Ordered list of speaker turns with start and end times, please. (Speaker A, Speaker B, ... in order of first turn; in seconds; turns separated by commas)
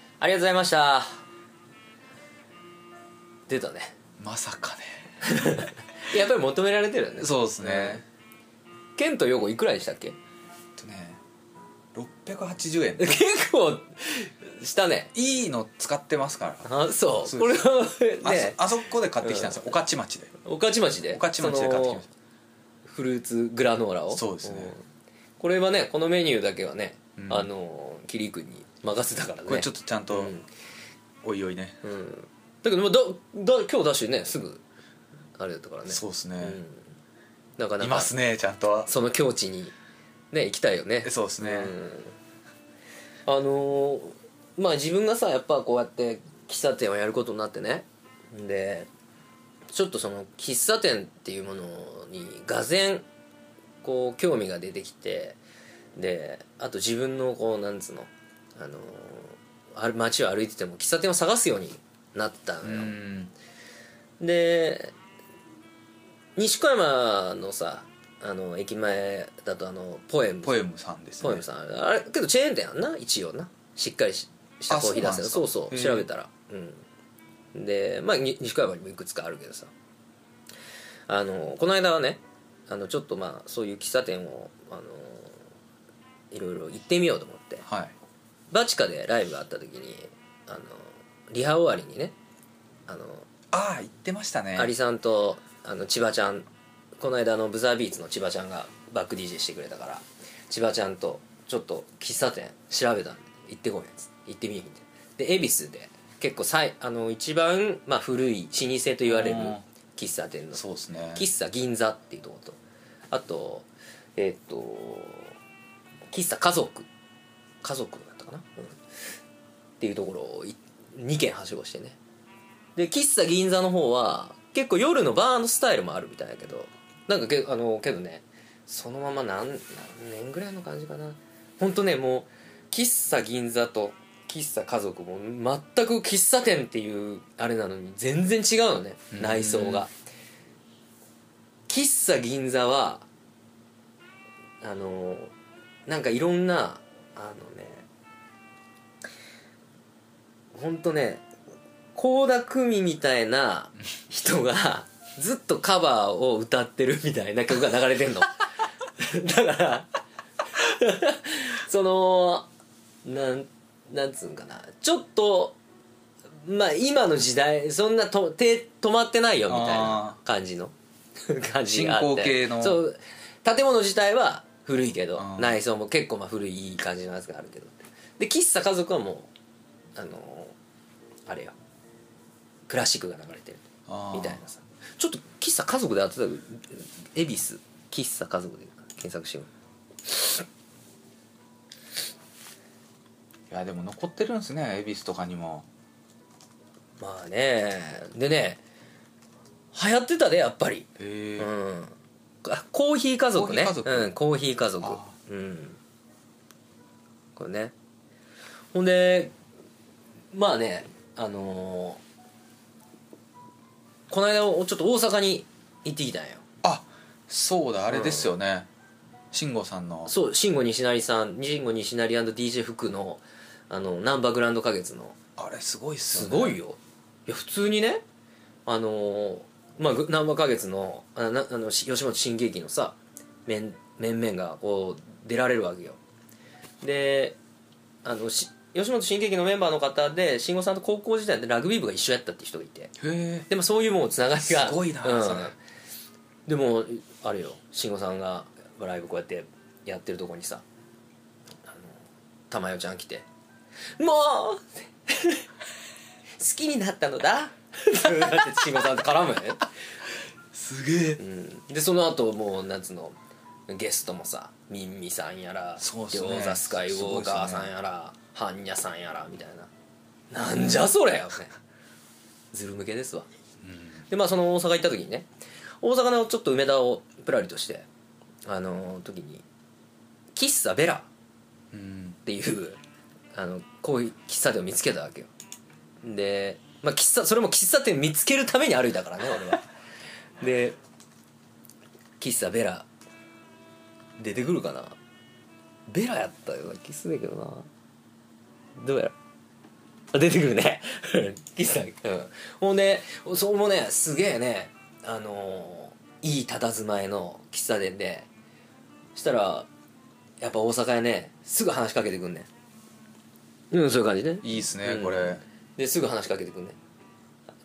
Speaker A: 0.2-1.2, Speaker A: 3.5-3.9, Speaker B: 4.2-5.0, Speaker A: 5.2-8.0, Speaker B: 7.2-8.0, Speaker A: 8.9-10.2, Speaker B: 10.8-11.2, Speaker B: 11.9-13.2, Speaker A: 13.0-15.1, Speaker B: 15.1-16.7, Speaker A: 16.6-18.6, Speaker B: 17.2-17.7, Speaker B: 18.2-20.3, Speaker A: 19.2-19.7, Speaker A: 20.4-22.0, Speaker B: 21.1-22.1, Speaker A: 22.9-24.8, Speaker B: 24.1-24.8, Speaker A: 25.4-30.5, Speaker B: 27.2-27.5, Speaker B: 29.5-30.4, Speaker B: 31.2-31.8, Speaker A: 31.8-34.6, Speaker A: 35.4-36.8, Speaker B: 35.9-36.6, Speaker A: 37.6-38.1, Speaker B: 37.8-38.9, Speaker A: 38.9-39.7, Speaker A: 40.3-42.1, Speaker B: 41.0-41.8, Speaker A: 43.3-48.9, Speaker A: 49.7-53.0, Speaker A: 53.8-55.4, Speaker A: 56.0-62.9, Speaker B: 62.6-63.3, Speaker A: 64.2-64.9, Speaker A: 66.3-70.6, Speaker B: 70.4-71.4, Speaker A: 71.2-76.8, Speaker B: 74.7-76.1, Speaker A: 77.5-79.7, Speaker A: 81.1-85.3, Speaker A: 86.3-87.6, Speaker B: 87.7-87.9, Speaker A: 88.5-92.1, Speaker A: 92.9-93.2, Speaker B: 93.5-94.7, Speaker A: 94.5-96.5, Speaker A: 97.0-110.6, Speaker B: 109.1-109.6, Speaker B: 110.5-111.2, Speaker A: 111.1-112.6, Speaker A: 113.1-115.3, Speaker A: 116.1-116.9, Speaker A: 117.6-118.8, Speaker A: 119.8-122.0, Speaker A: 122.8-139.9, Speaker B: 139.1-139.8, Speaker A: 141.7-143.0, Speaker A: 144.6-145.3, Speaker A: 145.9-147.8, Speaker A: 150.5-151.2, Speaker A: 151.9-158.4, Speaker A: 159.0-159.9, Speaker A: 160.6-162.5, Speaker A: 163.0-165.6, Speaker A: 166.4-170.7, Speaker B: 169.5-170.2, Speaker A: 171.2-179.3, Speaker B: 171.7-172.8, Speaker B: 175.1-175.6, Speaker A: 179.9-180.5, Speaker A: 181.3-181.6, Speaker A: 182.7-189.5, Speaker B: 183.9-184.4, Speaker A: 190.1-190.4, Speaker B: 193.5-195.7, Speaker A: 197.0-198.6, Speaker A: 199.7-200.9, Speaker B: 201.0-201.5, Speaker A: 201.4-205.8, Speaker B: 203.3-204.1, Speaker B: 204.8-205.1, Speaker A: 207.3-207.7, Speaker A: 208.7-209.3, Speaker A: 210.3-212.0, Speaker A: 214.1-216.4, Speaker B: 216.6-218.7, Speaker A: 217.9-218.3, Speaker B: 219.3-220.1, Speaker A: 220.1-225.2, Speaker B: 225.4-226.6, Speaker A: 226.1-228.0, Speaker A: 228.7-236.0, Speaker A: 236.8-237.4, Speaker A: 238.0-242.9, Speaker B: 243.0-243.5, Speaker A: 243.5-245.6, Speaker B: 244.3-245.5, Speaker A: 246.4-250.6, Speaker A: 251.7-251.9, Speaker A: 252.5-253.2, Speaker A: 254.0-255.4, Speaker A: 256.4-259.7, Speaker B: 260.5-261.2, Speaker A: 261.2-263.2, Speaker A: 263.7-269.7, Speaker B: 265.8-267.7, Speaker A: 270.3-271.6, Speaker A: 272.5-273.2, Speaker B: 273.6-274.0, Speaker A: 274.1-275.3, Speaker A: 275.8-277.9, Speaker A: 278.4-279.4, Speaker A: 280.3-281.1, Speaker B: 281.7-282.2, Speaker A: 282.2-282.8, Speaker A: 283.3-285.3, Speaker A: 286.0-289.6, Speaker A: 290.4-290.8, Speaker A: 292.2-292.9, Speaker A: 294.2-294.9, Speaker A: 295.9-297.7, Speaker A: 298.8-299.1, Speaker A: 300.1-308.3, Speaker A: 309.1-309.7, Speaker A: 310.4-312.5, Speaker A: 313.7-316.8, Speaker B: 314.4-315.4